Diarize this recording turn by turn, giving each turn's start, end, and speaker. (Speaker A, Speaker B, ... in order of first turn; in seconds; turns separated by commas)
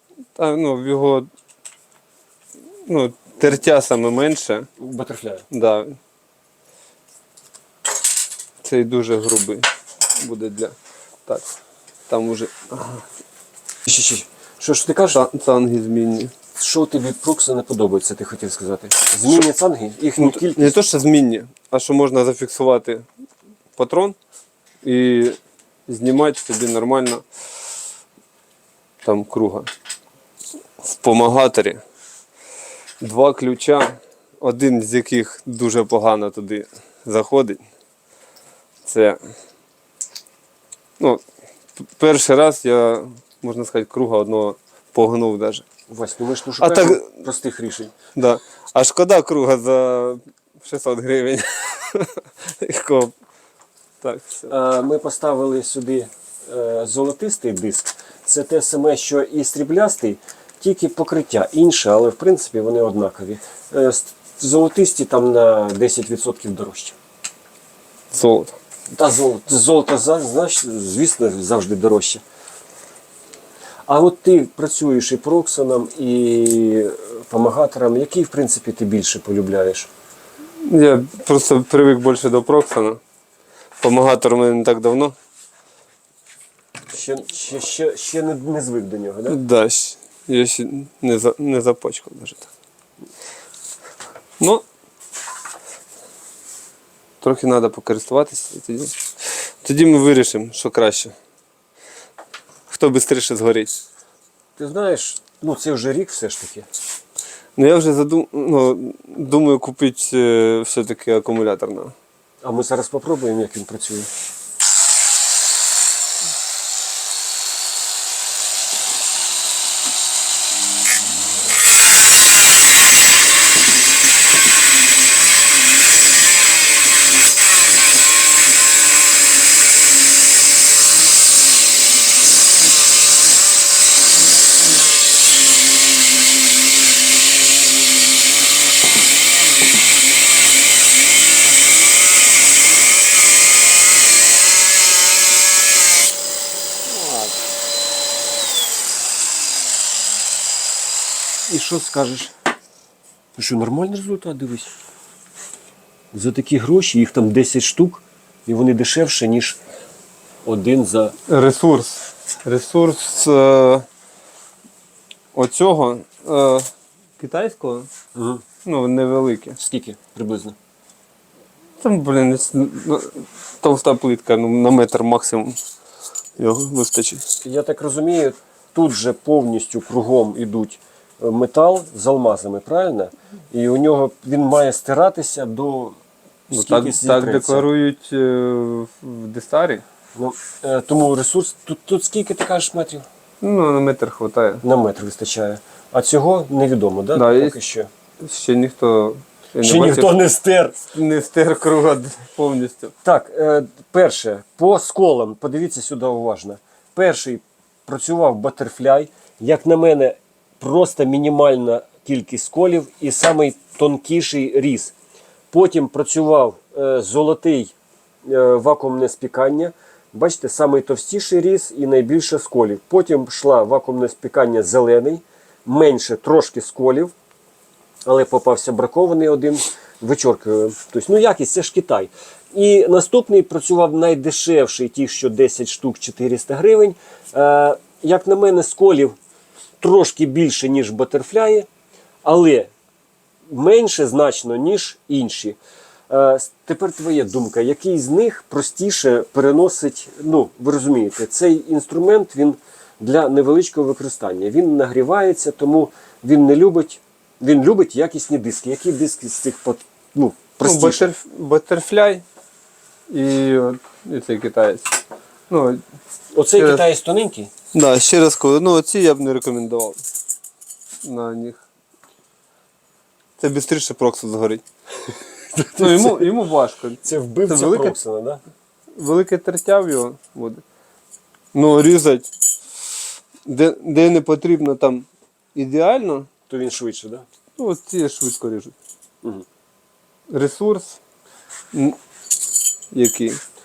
Speaker A: 0.4-1.3, Speaker A: 2.9-4.7, Speaker B: 4.8-5.5, Speaker A: 5.5-6.0, Speaker A: 8.6-9.7, Speaker A: 10.2-11.5, Speaker A: 12.1-13.0, Speaker B: 13.9-15.2, Speaker A: 15.1-16.3, Speaker B: 16.6-20.8, Speaker A: 20.2-23.1, Speaker A: 23.8-24.2, Speaker A: 24.8-27.2, Speaker A: 29.0-29.7, Speaker A: 30.8-31.8, Speaker A: 33.0-37.6, Speaker A: 38.9-39.2, Speaker A: 41.8-45.6, Speaker B: 45.9-47.9, Speaker A: 46.6-47.1, Speaker A: 48.2-53.1, Speaker A: 54.0-54.5, Speaker B: 54.5-67.0, Speaker A: 68.1-68.6, Speaker B: 68.9-72.2, Speaker B: 73.9-79.9, Speaker A: 80.6-83.0, Speaker A: 83.8-85.2, Speaker B: 86.9-89.4, Speaker A: 89.3-92.5, Speaker A: 97.2-101.1, Speaker A: 102.7-103.8, Speaker B: 104.6-106.7, Speaker A: 107.6-112.0, Speaker B: 112.4-114.1, Speaker A: 146.9-147.3, Speaker B: 151.5-152.3, Speaker B: 153.3-154.7, Speaker B: 156.1-159.6, Speaker B: 160.4-161.2, Speaker A: 161.3-163.9, Speaker A: 165.3-166.7, Speaker A: 167.2-167.9, Speaker B: 168.2-168.4, Speaker A: 168.7-169.6, Speaker B: 169.6-170.6, Speaker A: 171.8-175.6, Speaker A: 176.4-177.2, Speaker B: 177.4-186.0, Speaker B: 186.5-187.7, Speaker A: 186.5-189.8, Speaker B: 190.2-193.1, Speaker A: 193.4-194.6, Speaker B: 194.6-197.9, Speaker A: 197.2-197.6, Speaker A: 198.2-200.2, Speaker B: 199.6-200.8, Speaker A: 200.9-202.9, Speaker B: 203.0-214.9, Speaker B: 215.5-227.1, Speaker B: 228.1-239.2, Speaker B: 239.8-241.7, Speaker B: 242.2-242.7, Speaker B: 243.5-245.6, Speaker B: 246.1-261.1, Speaker A: 260.6-262.2, Speaker A: 263.1-265.0, Speaker A: 265.5-265.8, Speaker B: 266.3-267.5, Speaker A: 266.6-266.8, Speaker A: 267.7-270.0, Speaker A: 271.0-271.6, Speaker A: 273.4-274.6, Speaker B: 275.5-276.3, Speaker A: 275.8-278.0, Speaker B: 277.0-278.4, Speaker A: 279.0-280.6, Speaker A: 281.5-282.3, Speaker A: 283.4-286.3, Speaker B: 286.5-287.3, Speaker A: 287.6-288.8, Speaker A: 290.3-291.0, Speaker A: 292.9-293.4